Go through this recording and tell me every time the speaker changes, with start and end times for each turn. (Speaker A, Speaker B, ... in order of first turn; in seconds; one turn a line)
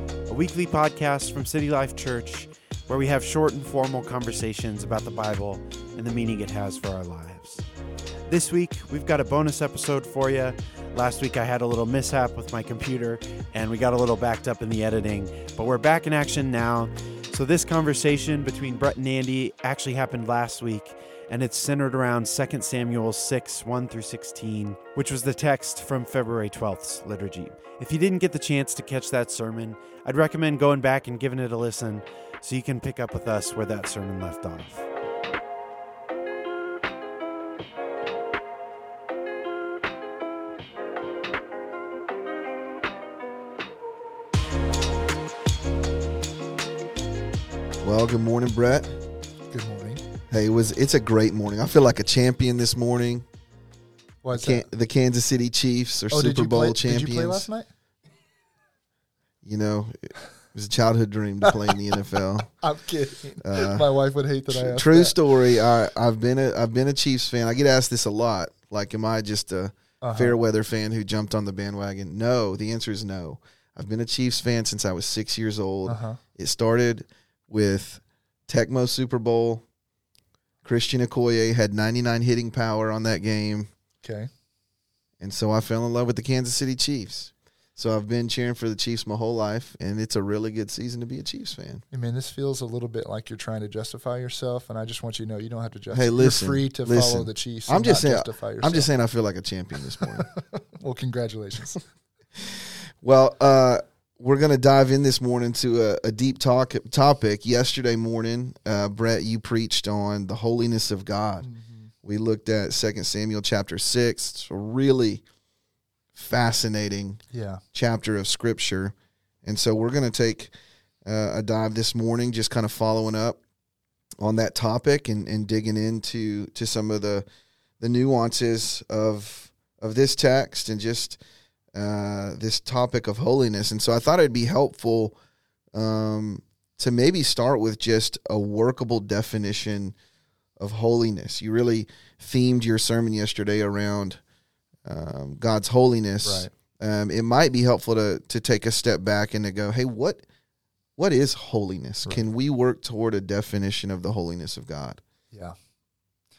Speaker A: 0.3-7.6
Speaker A: 8.3-34.9
Speaker B: 47.8-49.0
Speaker C: 49.5-50.0
Speaker B: 50.3-53.3
Speaker C: 54.2-54.7
Speaker B: 54.3-57.5
Speaker C: 56.1-57.7
Speaker B: 59.4-62.5
Speaker C: 62.6-65.2
Speaker B: 63.4-63.8
Speaker B: 64.5-79.6
Speaker C: 70.0-70.3
Speaker C: 75.9-76.2
Speaker B: 80.6-83.7
Speaker C: 84.0-84.3
Speaker B: 85.2-91.8
Speaker C: 91.9-98.9
Speaker B: 95.9-100.3
Speaker C: 100.0-101.8
Speaker B: 102.3-111.5
Speaker C: 111.4-111.9
Speaker B: 112.0-115.2
Speaker B: 116.1-117.2
Speaker C: 117.3-117.6
Speaker B: 117.7-120.5
Speaker B: 121.0-123.4
Speaker B: 124.2-127.2
Speaker B: 127.8-131.2
Speaker B: 131.7-135.2
Speaker B: 135.7-140.0
Speaker B: 140.6-144.2
Speaker B: 144.8-150.2
Speaker C: 146.2-146.5
Speaker B: 151.0-155.0